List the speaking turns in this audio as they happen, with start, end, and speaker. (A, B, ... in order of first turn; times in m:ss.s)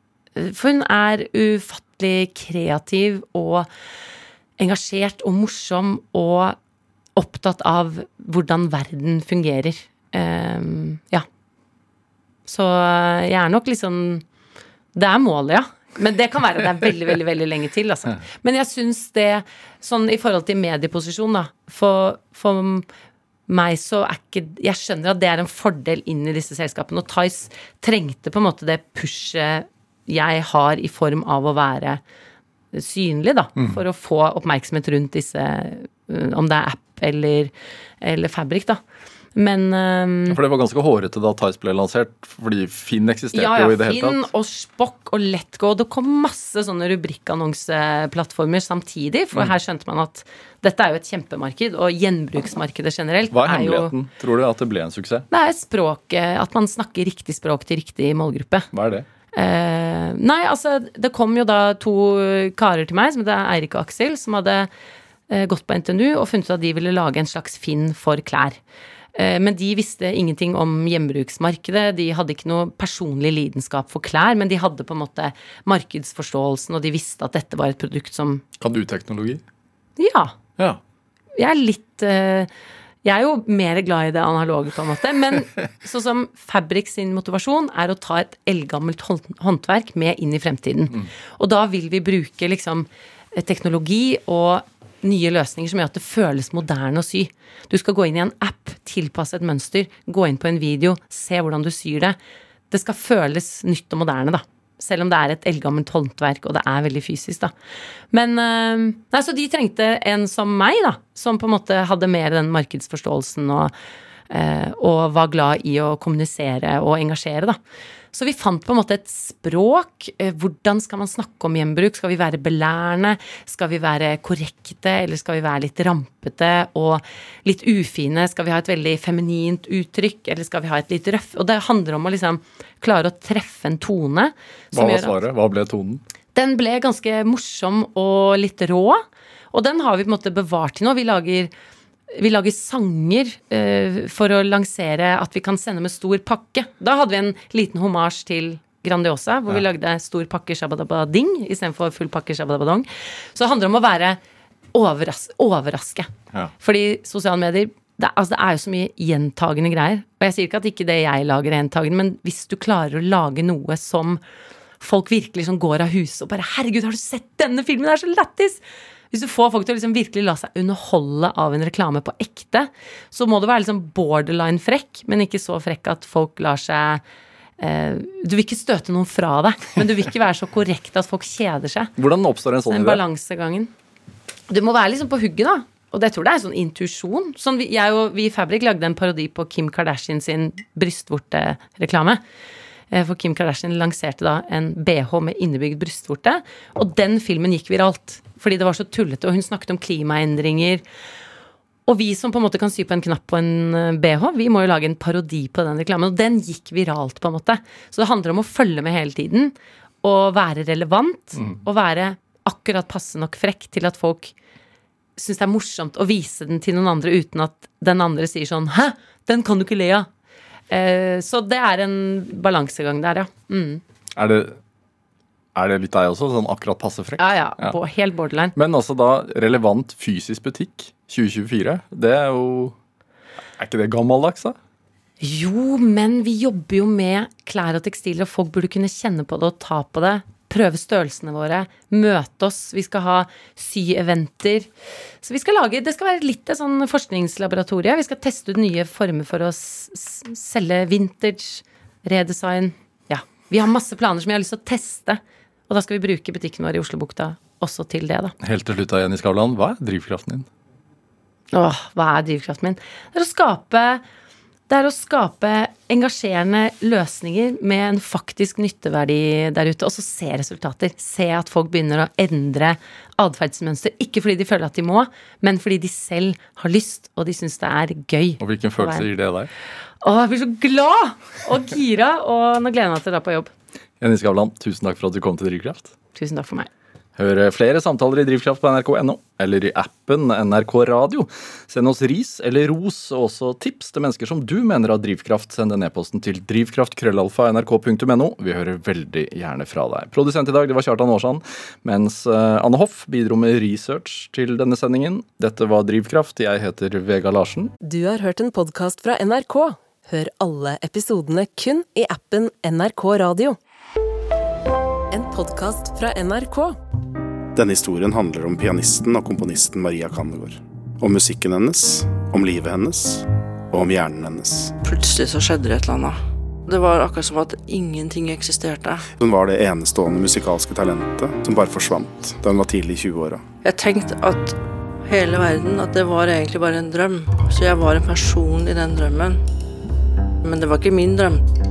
0:00.4-0:03.7 A
0:04.6-0:06.6 A
0:07.2-0:11.2 A
0:12.4-0:14.2 A
0:14.9-0:22.8 A
0:23.5-0:32.0 A
0:32.7-0:38.8 A
0:39.3-0:40.4 A
0:40.3-0:44.3 B
0:43.3-0:53.9 A
0:53.3-0:55.3 B
0:55.3-0:58.7 A
0:58.7-0:59.1 B
0:59.3-1:04.7 A
1:05.3-1:08.6 A
1:09.1-1:18.4 A
1:18.6-1:19.4 B
1:20.0-1:20.3 A
1:21.4-1:22.5 A
1:23.0-1:42.2 A
1:42.7-1:47.5 A
1:48.1-1:53.7 A
1:54.3-1:57.6 A
1:58.1-2:15.1 A
2:14.7-2:16.0 B
2:16.3-2:21.5 A
2:22.1-2:34.2 A
2:34.7-2:44.2 A
2:44.8-2:57.0 A
2:57.6-3:01.9 A
3:02.0-3:03.0 B
3:02.7-3:03.7 A
3:04.5-3:12.2 A
3:12.9-3:20.8 A
3:21.8-3:34.3 A
3:35.2-3:40.1 A
3:40.7-3:43.8 A
3:44.1-3:44.6 B
3:45.5-3:47.8 B
3:47.2-3:48.5 A
3:48.5-3:52.7 B
3:53.6-3:54.6 B
3:55.2-4:04.7 A
4:05.2-4:18.3 A
4:18.4-4:20.5 B
4:21.5-4:24.0 A
4:24.7-4:39.1 A
4:38.4-4:39.5 B
4:40.0-4:43.5 A
4:44.0-4:45.9 B
4:46.1-4:46.7 A
4:47.2-5:07.7 B
5:07.8-5:13.6 C
5:15.1-5:16.8 C
5:17.5-5:24.8 D
5:24.8-5:29.1 E
5:29.2-5:33.4 D
5:33.6-5:39.4 E
5:40.4-5:41.4 E